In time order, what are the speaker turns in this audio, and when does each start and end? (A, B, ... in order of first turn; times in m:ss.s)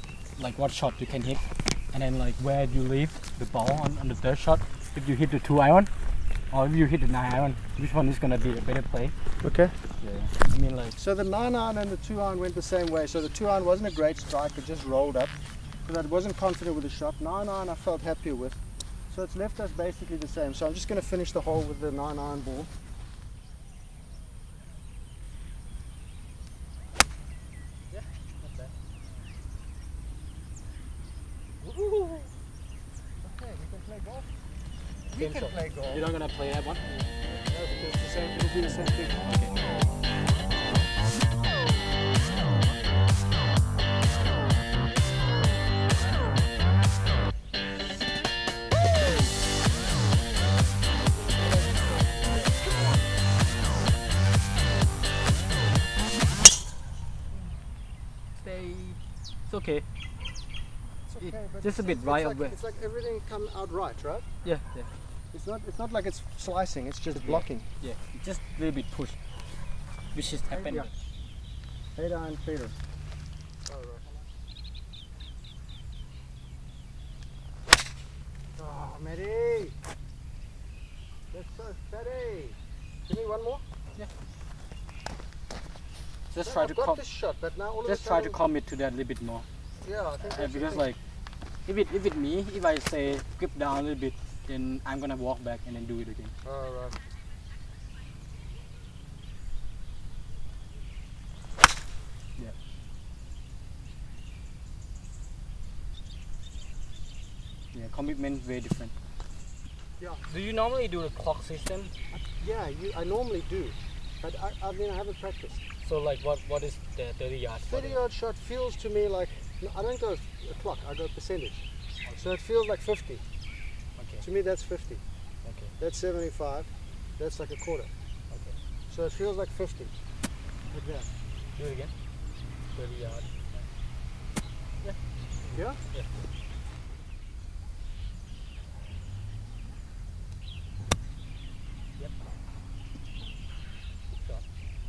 0:00.4-0:05.9 A
0:06.5-0:09.1 A
0:09.4-0:09.7 B
0:10.0-0:11.0 A
0:11.0-0:15.3 B
0:15.8-0:22.7 B
0:27.9-0:28.7 A
0:31.6-0:32.3 A
0:33.2-0:34.3 B
0:35.1-0:36.1 B
0:35.2-0:37.1 A
0:37.4-0:39.3 B
0:39.2-0:39.6 A
0:51.2-0:52.6 B
0:58.4-0:59.8 A
1:01.1-1:04.3 B
1:01.2-1:02.6 A
1:04.4-1:04.9 A
1:05.3-1:07.7 B
1:07.2-1:09.2 A
1:10.1-1:10.9 A
1:10.5-1:10.9 B
1:12.0-1:12.8 B
1:13.7-1:14.2 B
1:18.6-1:19.8 B
1:21.3-1:23.6 B
1:26.3-1:27.0 A
1:26.4-1:28.4 B
1:27.8-1:29.4 A
1:29.8-1:30.9 B
1:30.2-1:31.0 A
1:31.7-1:36.3 A
1:36.4-1:37.0 B
1:47.7-1:48.9 A
1:50.0-1:50.2 B
1:50.3-1:51.9 A
1:52.1-1:55.6 B
1:55.8-1:58.0 A
1:57.7-2:01.6 B
2:02.2-2:03.2 B
2:04.0-2:04.2 A
2:04.2-2:05.0 B
2:05.4-2:05.7 A
2:05.8-2:07.9 B
2:08.9-2:09.9 B
2:10.7-2:11.1 B
2:11.6-2:11.9 A
2:12.8-2:13.6 A
2:15.5-2:16.1 A
2:15.5-2:15.8 B